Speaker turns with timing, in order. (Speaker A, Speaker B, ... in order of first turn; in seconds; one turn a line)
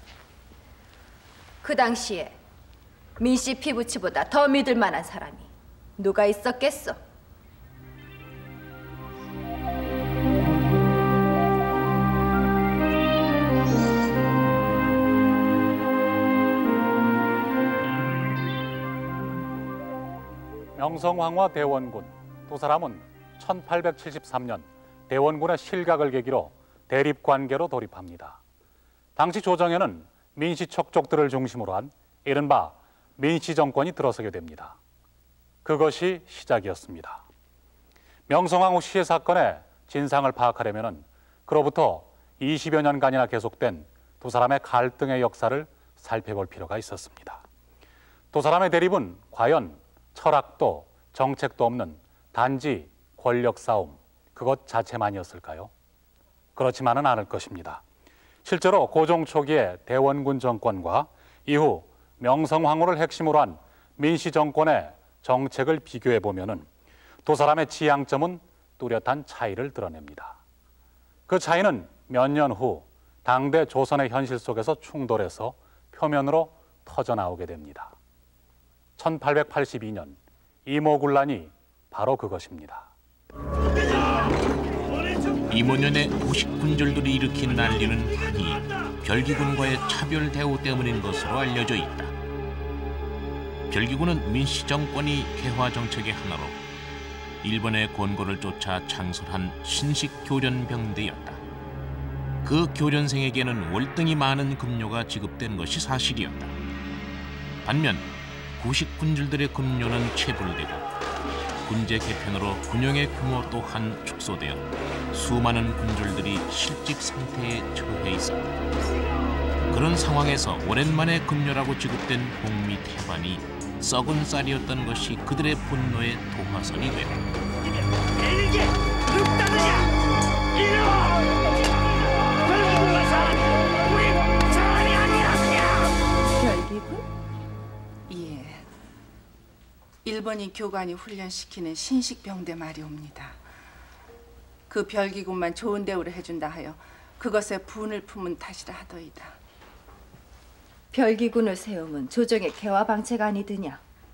Speaker A: 1.6-2.4
Speaker A: 3.2-7.0
Speaker B: 20.8-28.4
Speaker B: 29.2-34.8
Speaker B: 35.6-37.2
Speaker B: 38.3-47.4
Speaker B: 48.3-55.7
Speaker B: 56.6-57.8
Speaker B: 58.4-66.7
Speaker B: 67.2-70.4
Speaker B: 71.3-77.9
Speaker B: 79.0-82.9
Speaker C: 85.5-92.1
Speaker C: 93.7-96.6
Speaker C: 97.4-101.4
Speaker C: 102.4-106.6
Speaker C: 107.6-110.9
Speaker C: 111.6-118.6
Speaker C: 119.7-127.3
Speaker D: 128.2-129.9
Speaker D: 130.6-131.2
Speaker D: 132.4-135.8
Speaker A: 136.3-137.1
Speaker E: 138.1-138.7
Speaker E: 140.0-143.4
Speaker E: 144.7-149.4
Speaker A: 150.9-153.8